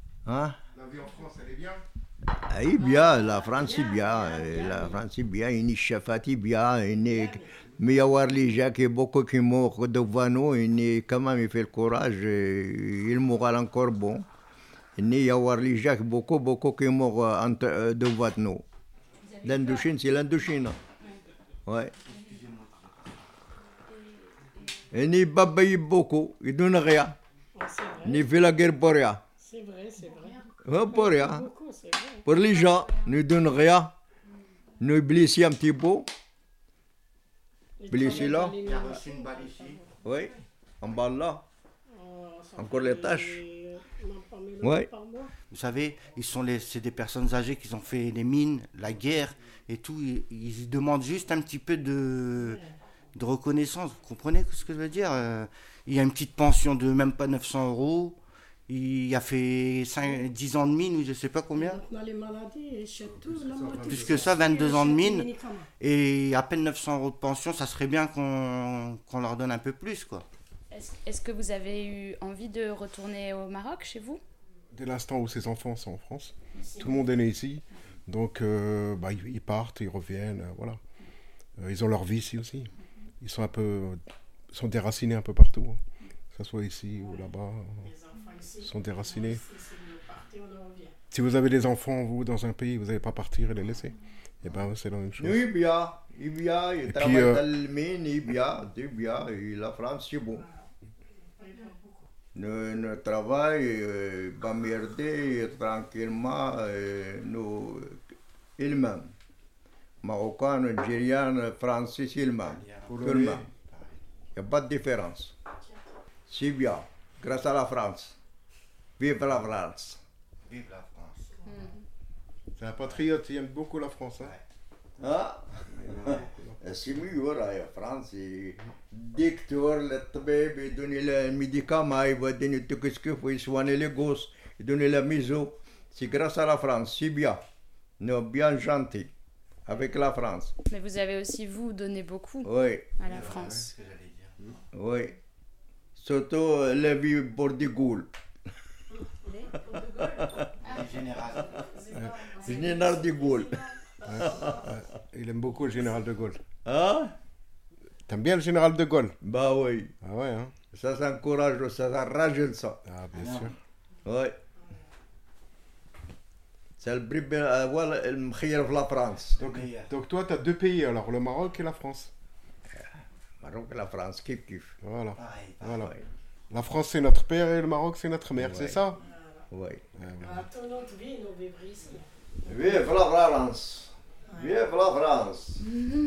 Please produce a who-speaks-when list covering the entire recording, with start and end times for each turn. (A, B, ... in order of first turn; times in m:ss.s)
0:00.2-0:00.6 A
0:00.7-0:01.8 B
0:02.3-0:14.2 A
0:02.7-0:05.0 C
0:07.1-0:07.5 C
0:15.0-0:18.6 A
0:19.3-0:19.9 D
0:19.4-0:20.8 A
0:21.6-0:21.9 A
0:22.0-0:23.1 E
0:23.9-0:24.7 D
0:24.9-0:27.2 A
0:27.5-0:28.4 C
0:28.0-0:29.2 A
0:29.4-0:32.3 C
0:30.6-0:31.5 A
0:32.2-0:33.9 A
0:32.4-0:33.0 D
0:34.8-0:36.1 A
0:37.8-0:39.8 C
0:37.9-0:38.6 A
0:38.0-0:39.8 E
0:40.0-0:41.5 A
0:41.9-0:45.3 C
0:42.6-0:43.4 A
0:44.6-0:44.9 A
0:45.5-1:01.8 E
0:52.4-0:52.8 C
1:01.5-1:05.7 C
1:03.0-1:04.5 B
1:03.8-1:10.3 E
1:10.7-1:14.2 D
1:14.7-1:20.8 B
1:16.6-1:17.0 C
1:21.6-1:25.8 B
1:26.3-1:27.9 B
1:27.0-1:27.3 C
1:27.8-1:31.0 C
1:28.6-1:29.4 B
1:31.1-1:35.5 B
1:35.2-1:40.5 A
1:36.9-1:37.4 B
1:40.3-1:40.7 C
1:41.2-1:42.1 C
1:42.3-1:48.0 A
1:48.6-1:49.1 A
1:50.0-1:53.5 A
1:52.4-1:53.1 E
1:52.9-1:53.5 B
1:53.6-1:54.0 E
1:54.3-1:55.3 A
1:56.3-1:58.2 A
1:59.0-2:00.0 A
2:00.4-2:01.4 E
2:01.5-2:01.7 D
2:02.6-2:04.3 B
2:02.8-2:03.1 E
2:05.0-2:17.4 A
2:05.7-2:06.6 B
2:18.0-2:19.1 A
2:19.6-2:20.5 A
2:20.7-2:23.6 D
2:22.4-2:23.0 A
2:23.0-2:24.6 E
2:24.7-2:25.2 A
2:26.0-2:28.1 A
2:29.6-2:30.4 A
2:30.6-2:31.7 E
2:30.8-2:33.3 D
2:31.9-2:32.3 B
2:32.4-2:34.8 A
2:34.0-2:34.6 C
2:34.0-2:36.4 B
2:36.6-2:37.1 A
2:38.1-2:39.2 B
2:39.2-2:39.9 A
2:40.0-2:40.6 B
2:40.7-2:42.8 A
2:42.8-2:43.5 B
2:43.1-2:43.5 E
2:44.0-2:44.4 A
2:46.8-2:49.4 A
2:49.3-2:49.9 E
2:49.4-2:52.1 B
2:53.4-2:54.8 A
2:54.8-2:55.9 B
2:55.1-2:55.9 E
2:56.5-2:59.0 B
2:58.3-2:58.9 A
2:59.0-2:59.4 C
2:59.5-2:59.9 A
2:59.9-3:00.5 B
3:00.2-3:02.7 C
3:02.4-3:05.7 A
3:04.3-3:04.6 C